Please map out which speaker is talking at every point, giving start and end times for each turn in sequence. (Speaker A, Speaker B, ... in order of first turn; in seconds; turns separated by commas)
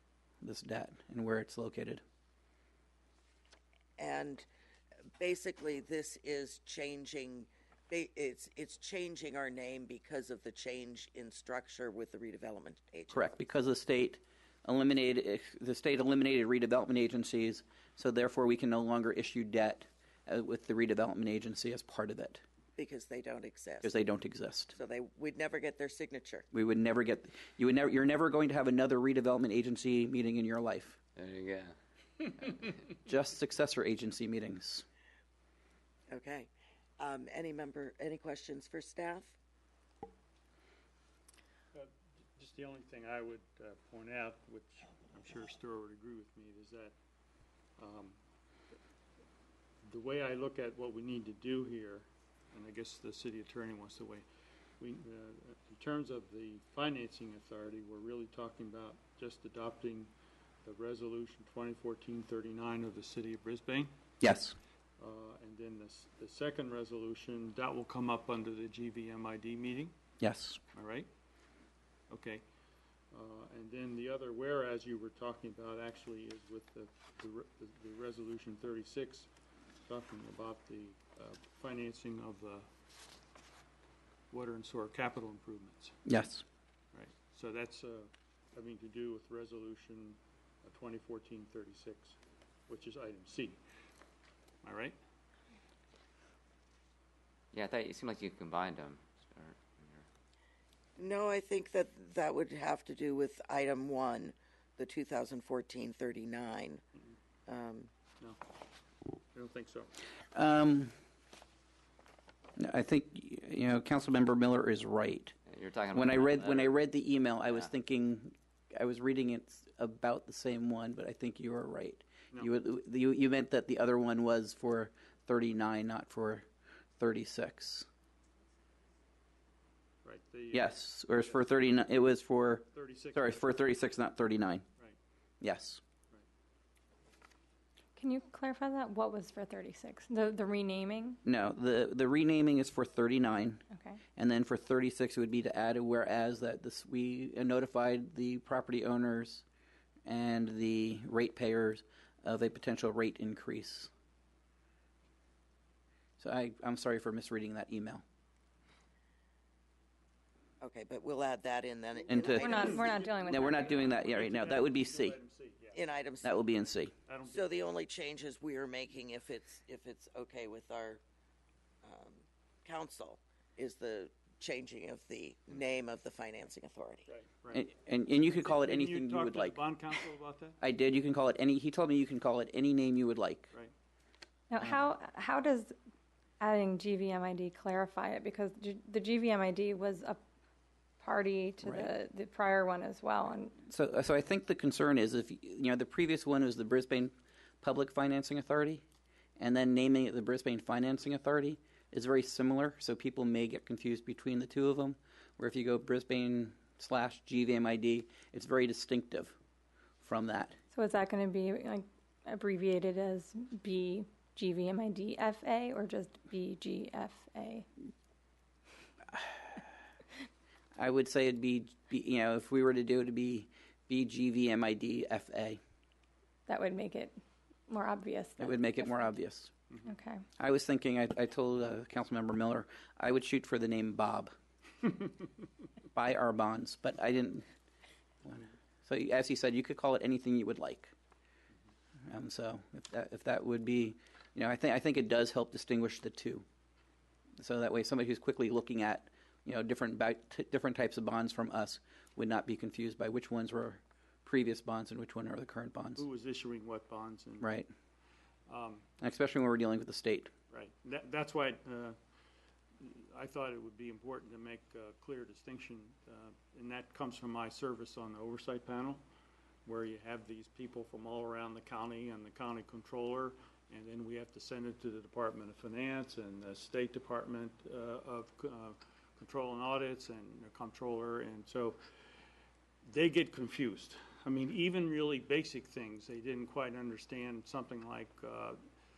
Speaker A: 0.4-2.0, Speaker B: 4.0-4.5, Speaker B: 5.2-13.3, Speaker A: 13.1-22.4, Speaker B: 22.8-24.0, Speaker A: 23.8-24.7, Speaker B: 24.7-26.4, Speaker A: 26.5-31.0, Speaker C: 31.1-31.8, Speaker A: 33.0-34.8, Speaker B: 36.1-39.4, Speaker D: 41.7-46.9, Speaker D: 47.8-48.2, Speaker D: 49.8-54.2, Speaker D: 54.8-60.1, Speaker D: 60.6-63.9, Speaker A: 64.2-64.5, Speaker D: 65.0-69.9, Speaker A: 70.2-70.6, Speaker D: 70.7-71.1, Speaker D: 72.1-72.4, Speaker D: 73.1-79.3, Speaker D: 79.8-82.7, Speaker D: 84.3-85.9, Speaker A: 86.0-86.4, Speaker D: 86.9-92.2, Speaker D: 92.7-93.6, Speaker D: 94.6-95.0, Speaker C: 97.5-100.1, Speaker B: 101.0-106.8, Speaker B: 107.5-107.9, Speaker D: 109.3-109.9, Speaker A: 110.3-110.9, Speaker A: 112.6-115.3, Speaker C: 115.5-116.8, Speaker A: 115.9-126.5, Speaker A: 127.0-127.9, Speaker D: 130.0-131.4, Speaker A: 130.5-134.6, Speaker D: 132.7-133.4, Speaker A: 135.4-135.8, Speaker E: 137.9-141.2, Speaker A: 141.2-143.6, Speaker E: 143.7-144.0, Speaker A: 144.2-149.4, Speaker A: 150.1-153.9, Speaker A: 156.2-158.0, Speaker B: 160.6-163.1, Speaker A: 162.1-162.6, Speaker E: 162.4-163.9, Speaker A: 163.2-165.2, Speaker D: 163.4-165.8, Speaker B: 165.7-166.4, Speaker A: 166.2-166.9, Speaker D: 167.1-167.5, Speaker B: 167.2-171.0, Speaker B: 171.8-177.1, Speaker D: 177.1-177.7, Speaker A: 177.5-179.6, Speaker D: 178.3-180.6, Speaker A: 180.6-183.5, Speaker E: 184.5-185.7, Speaker A: 184.6-184.9, Speaker E: 186.4-190.2, Speaker E: 191.0-193.6, Speaker A: 191.6-191.9, Speaker A: 193.7-198.8, Speaker A: 199.4-209.3, Speaker A: 210.0-210.6, Speaker E: 210.7-217.7, Speaker A: 219.1-219.6, Speaker A: 220.8-225.6, Speaker E: 226.5-227.1, Speaker E: 227.7-229.1, Speaker A: 228.4-229.5, Speaker E: 229.8-230.2, Speaker A: 230.4-234.3, Speaker A: 235.9-237.4, Speaker A: 238.2-240.9, Speaker A: 242.1-246.4, Speaker A: 247.4-256.0, Speaker D: 256.0-257.5, Speaker A: 257.4-257.7, Speaker D: 258.5-258.8, Speaker A: 259.0-260.3, Speaker D: 260.5-261.9, Speaker D: 262.8-269.0, Speaker D: 269.6-281.8, Speaker D: 282.8-288.6